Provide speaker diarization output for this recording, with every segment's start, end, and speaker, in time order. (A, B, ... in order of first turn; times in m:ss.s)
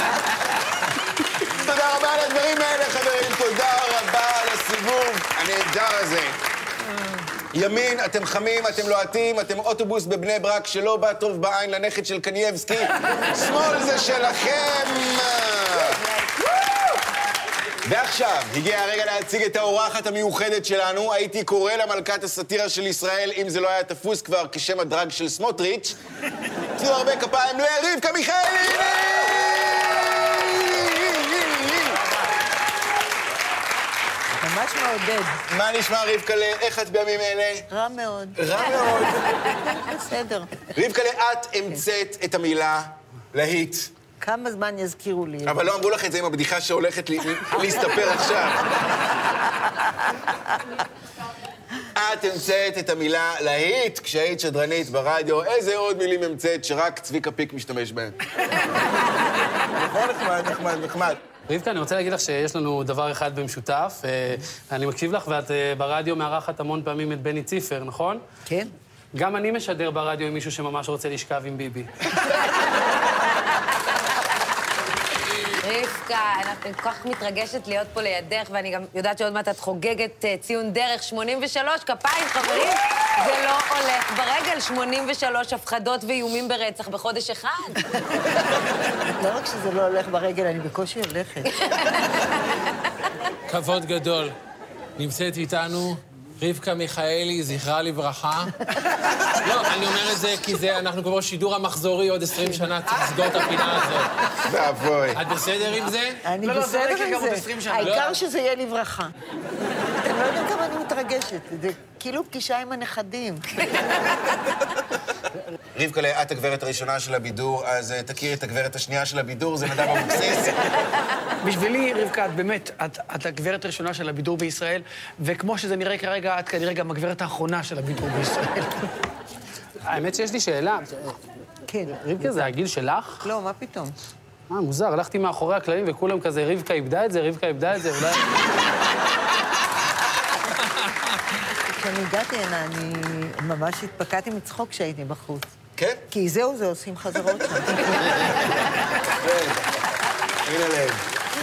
0:01.4-0:06.4 A
0:07.5-0:16.0 A
0:16.0-0:16.3 B
0:17.8-0:26.0 A
0:26.8-0:32.0 A
0:34.4-0:35.4 C
0:35.5-0:37.6 A
0:37.7-0:38.4 C
0:38.4-0:39.3 A
0:39.7-0:40.7 C
0:40.7-0:43.9 A
0:44.2-0:45.7 C
0:45.4-0:48.7 A
0:51.9-0:58.6 A
0:59.8-1:01.2 A
1:01.5-1:08.2 D
1:08.4-1:08.7 C
1:09.1-1:11.9 D
1:15.6-1:27.8 B
1:29.2-1:31.5 C
1:31.5-1:32.3 B
1:33.5-1:34.3 E
1:35.0-1:38.5 E
1:39.4-1:44.1 E
1:42.4-1:42.6 C
1:44.4-1:45.2 A
1:45.1-1:46.2 E
1:46.2-1:49.1 C
1:46.4-1:48.1 F
1:47.8-1:48.1 E
1:50.0-1:53.8 C
1:55.7-2:00.6 A
2:01.4-2:08.9 F
2:09.8-2:11.2 D
2:11.7-2:12.5 C
2:11.9-2:13.2 D
2:13.2-2:14.0 C
2:14.5-2:18.3 D
2:20.6-2:21.0 E
2:21.7-2:25.5 C
2:25.8-2:26.0 A
2:26.1-2:28.6 C
2:29.1-2:29.7 A
2:30.4-2:31.0 A